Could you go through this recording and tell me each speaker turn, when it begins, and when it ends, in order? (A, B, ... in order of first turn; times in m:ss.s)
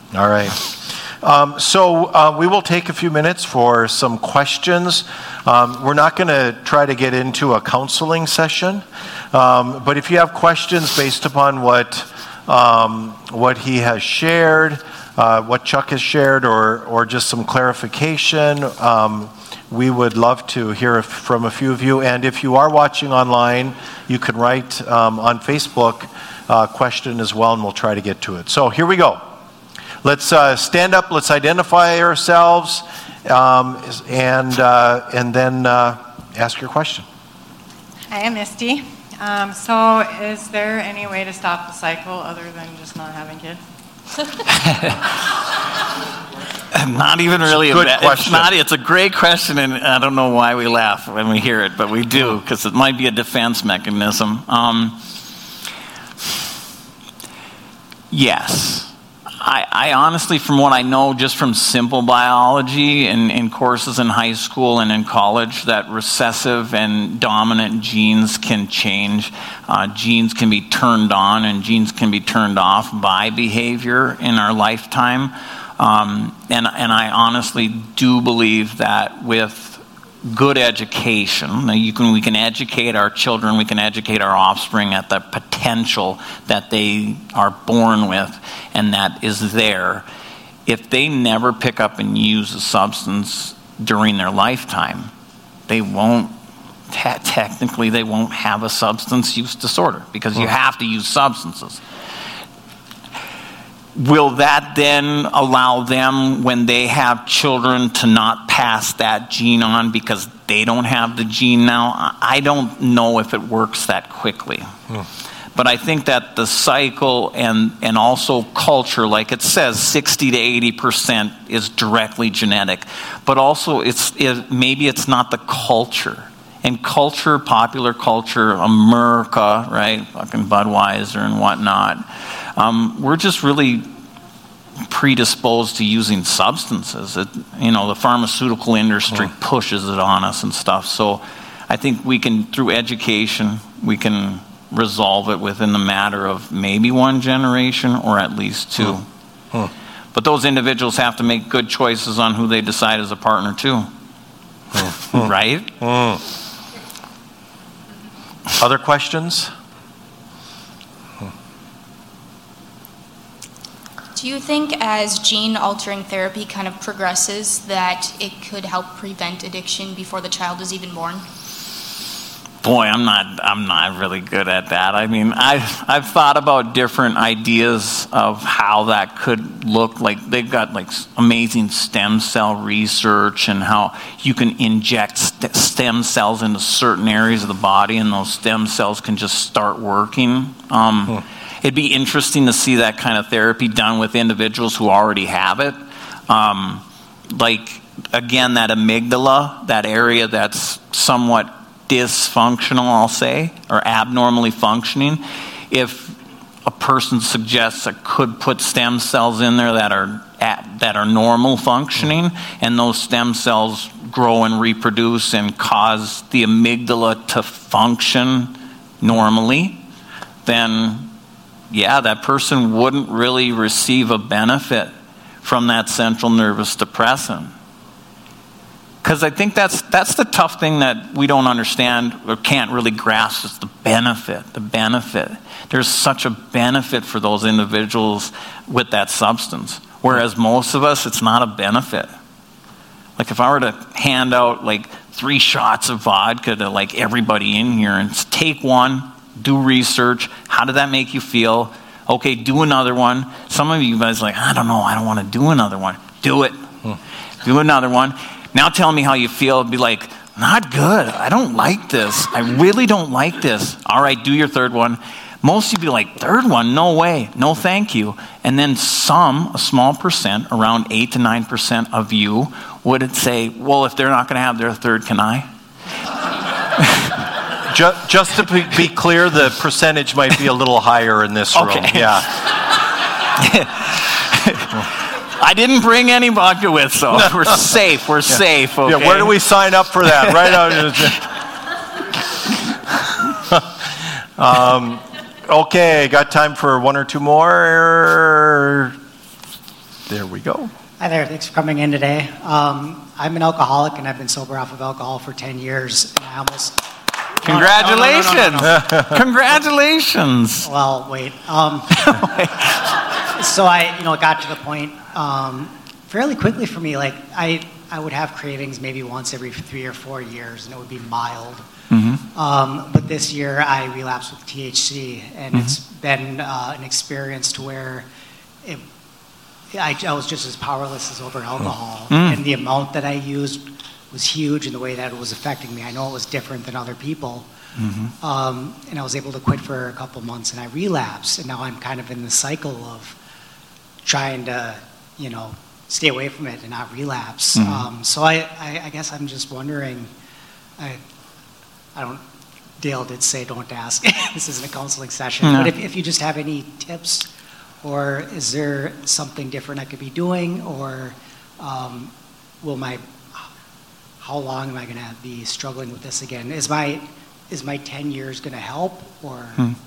0:00.1-0:29.2 A
0:30.0-0:37.0 A
0:38.1-0:43.6 B
0:44.5-0:45.0 C
0:46.7-0:55.0 C
0:47.5-0:48.5 A
0:58.1-1:30.0 C
1:30.6-1:35.1 C
1:35.7-1:36.3 C
1:36.9-1:41.8 C
1:43.9-1:54.7 C
1:55.5-2:13.8 C
2:14.8-2:29.1 C
2:30.1-2:33.9 C
2:34.8-2:35.7 C
2:35.8-2:36.2 A
2:38.6-2:39.5 A
2:44.1-2:51.2 D
2:52.6-3:15.8 C
3:16.3-3:39.8 C
3:40.4-3:41.1 C
3:41.7-3:44.9 C
3:45.4-3:47.5 C
3:49.0-4:02.1 C
4:03.2-4:16.5 C
4:17.4-4:35.5 C
4:37.6-4:42.3 A
4:41.5-4:49.3 C
4:48.8-4:51.3 A
4:50.1-4:51.1 C
4:53.4-4:53.7 A
4:54.4-4:59.0 A
5:00.1-5:00.7 C
5:01.0-5:06.8 E
5:07.4-5:09.2 E
5:07.4-5:10.7 C
5:10.6-5:21.6 E
5:11.9-5:12.9 C
5:21.9-5:22.2 C
5:22.3-5:28.1 E
5:29.7-5:37.5 E
5:32.1-5:32.4 C
5:37.8-5:38.1 C
5:38.2-5:43.1 E
5:44.0-5:50.1 E
5:47.6-5:47.8 C
5:51.9-5:52.2 E
5:52.8-5:57.3 E
5:55.4-5:55.7 C
5:57.8-6:03.4 E
6:04.2-6:09.7 E